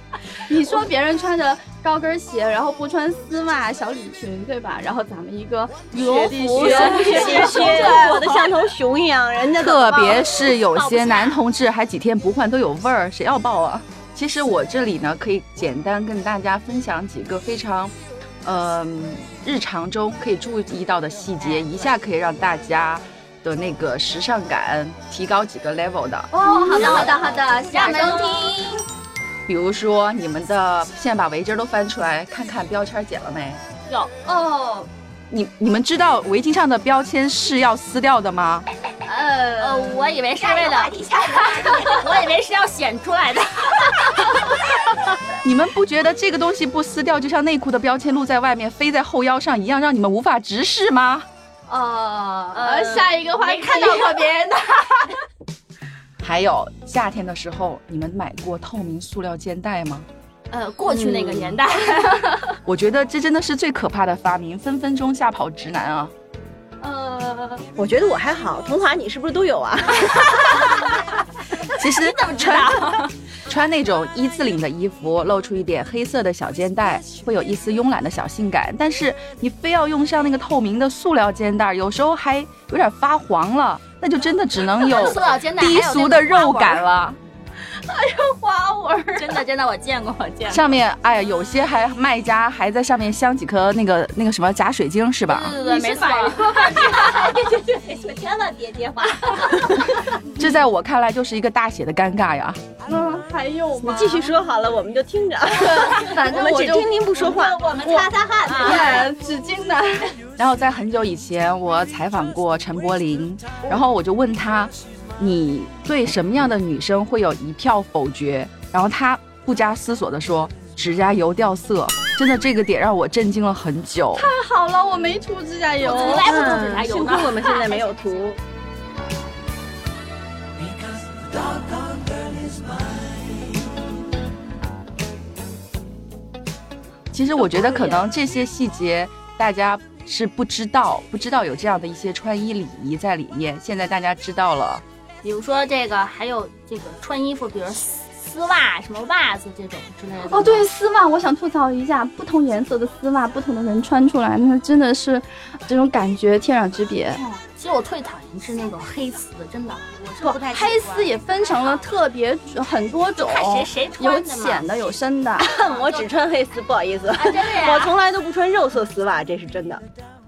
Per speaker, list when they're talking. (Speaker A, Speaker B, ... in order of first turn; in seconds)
Speaker A: 0.5-8.0, 26.3-28.8, 34.2-34.9, 39.0-40.1, 51.7-55.0, 66.8-67.6, 87.7-89.4, 95.6-96.8, 102.8-104.3, 105.6-107.0, 107.8-110.1, 124.2-126.3, 137.6-138.0, 150.2-157.2, 160.2-165.5
Speaker B: 5.9-10.4, 60.9-61.6, 67.8-71.0, 103.8-107.6, 108.5-109.0, 126.0-128.4, 165.4-169.8
Speaker C: 6.0-8.4, 10.5-11.4, 21.4-21.7, 26.4-28.8, 39.6-44.7, 52.5-54.5, 60.5-62.6, 72.0-73.1, 84.8-86.8, 89.1-90.7, 95.3-97.0, 125.8-128.2, 145.2-150.7, 157.1-161.8, 163.2-164.7, 165.6-166.1, 167.1-167.9
Speaker D: 6.6-8.5, 40.4-42.2, 96.3-100.0, 107.1-109.1
Speaker E: 9.6-26.3, 29.5-33.6, 35.3-38.6, 45.4-51.3, 56.2-60.1, 62.6-66.1, 71.7-87.2, 90.5-95.6, 100.4-102.6, 110.4-124.3, 137.1-144.8